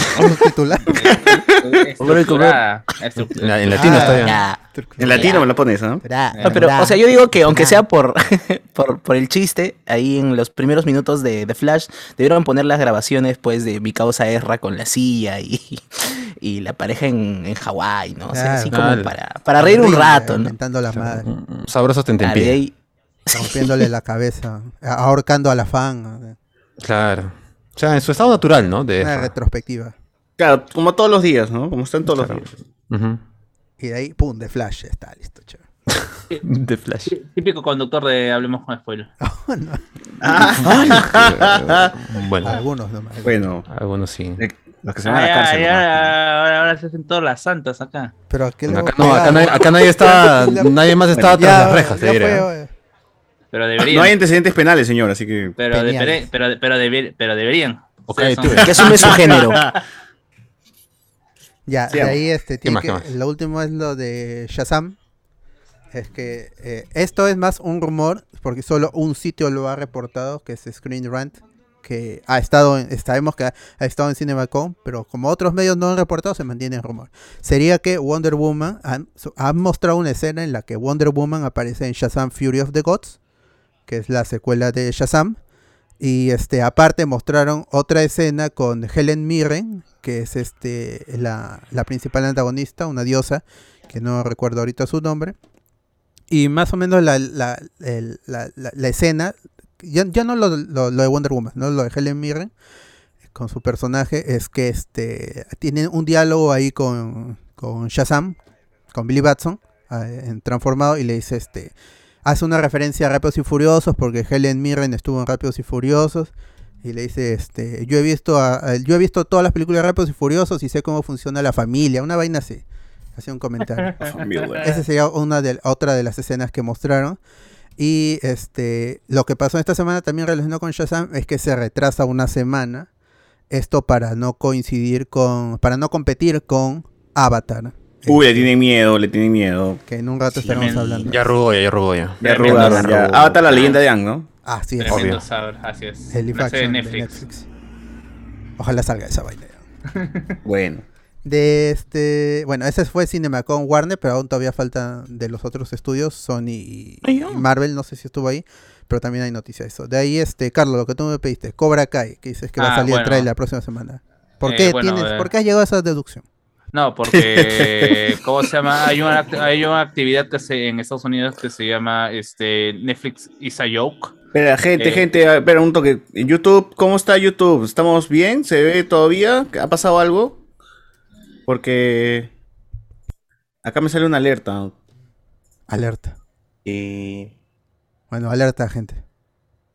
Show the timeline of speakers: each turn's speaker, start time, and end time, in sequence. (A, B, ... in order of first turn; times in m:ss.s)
0:00.2-0:01.1 A
0:00.8-0:04.2 B
0:02.1-0:02.4 C
0:03.4-0:04.4 D
0:03.8-0:05.3 A
0:03.9-0:05.5 C
0:05.0-0:06.0 E
0:06.0-0:07.8 A
0:06.3-0:06.7 B
0:06.4-0:20.5 C
0:18.3-0:18.8 A
0:18.7-0:19.1 D
0:19.6-0:21.3 A
0:20.9-0:22.6 D
0:22.2-0:22.7 C
0:23.3-0:23.8 C
0:23.3-0:26.4 A
0:26.8-0:29.3 D
0:29.0-0:30.0 A
0:30.4-0:32.5 E
0:32.1-0:33.2 D
0:33.8-0:35.6 A
0:36.4-0:37.1 D
0:37.1-0:39.1 B
0:39.2-0:39.8 A
0:40.2-0:41.9 E
0:40.6-0:42.6 D
0:40.7-0:41.0 A
0:42.4-0:43.5 A
0:43.2-0:43.6 E
0:43.7-0:44.4 D
0:44.4-0:46.1 E
0:45.0-0:48.1 B
0:48.3-0:50.8 A
0:48.7-0:52.5 D
0:51.1-0:51.4 E
0:51.3-0:52.7 A
0:53.5-0:54.1 B
0:53.8-0:55.6 E
0:55.6-0:59.1 B
0:55.7-0:56.3 A
0:58.1-0:59.2 D
0:58.6-0:59.6 C
0:59.1-0:59.6 E
1:01.7-1:05.0 A
1:01.9-1:02.2 E
1:02.6-1:03.1 D
1:05.9-1:23.2 A
1:23.9-1:25.4 A
1:26.0-1:35.4 A
1:36.3-1:42.5 A
1:43.3-1:48.4 A
1:48.9-1:51.7 A
1:52.2-1:56.3 A
1:56.8-2:02.6 A
2:03.2-2:07.2 A
2:04.0-2:04.7 E
2:07.8-2:12.9 A
2:13.5-2:18.5 A
2:18.1-2:19.8 E
2:19.8-2:21.3 A
2:20.3-2:21.1 C
2:20.5-2:20.9 B
2:21.1-2:23.4 D
2:22.2-2:24.3 E
2:22.2-2:22.7 B
2:22.5-2:23.7 C
2:24.4-2:25.2 A
2:24.8-2:27.2 B
2:24.9-2:25.2 D
2:26.1-2:27.5 A
2:28.6-2:29.6 A
2:29.9-2:30.4 B
2:30.4-2:30.8 E
2:31.2-2:46.2 A
2:37.0-2:37.4 C
2:42.6-2:43.3 B
2:44.4-2:45.3 B
2:46.7-2:54.1 B
2:47.2-2:48.0 E
2:54.3-3:00.4 E
2:54.8-2:55.0 B
3:01.5-3:02.3 E
3:03.6-3:04.7 E
3:05.7-3:06.2 A
3:06.6-3:07.3 C
3:08.1-3:09.0 A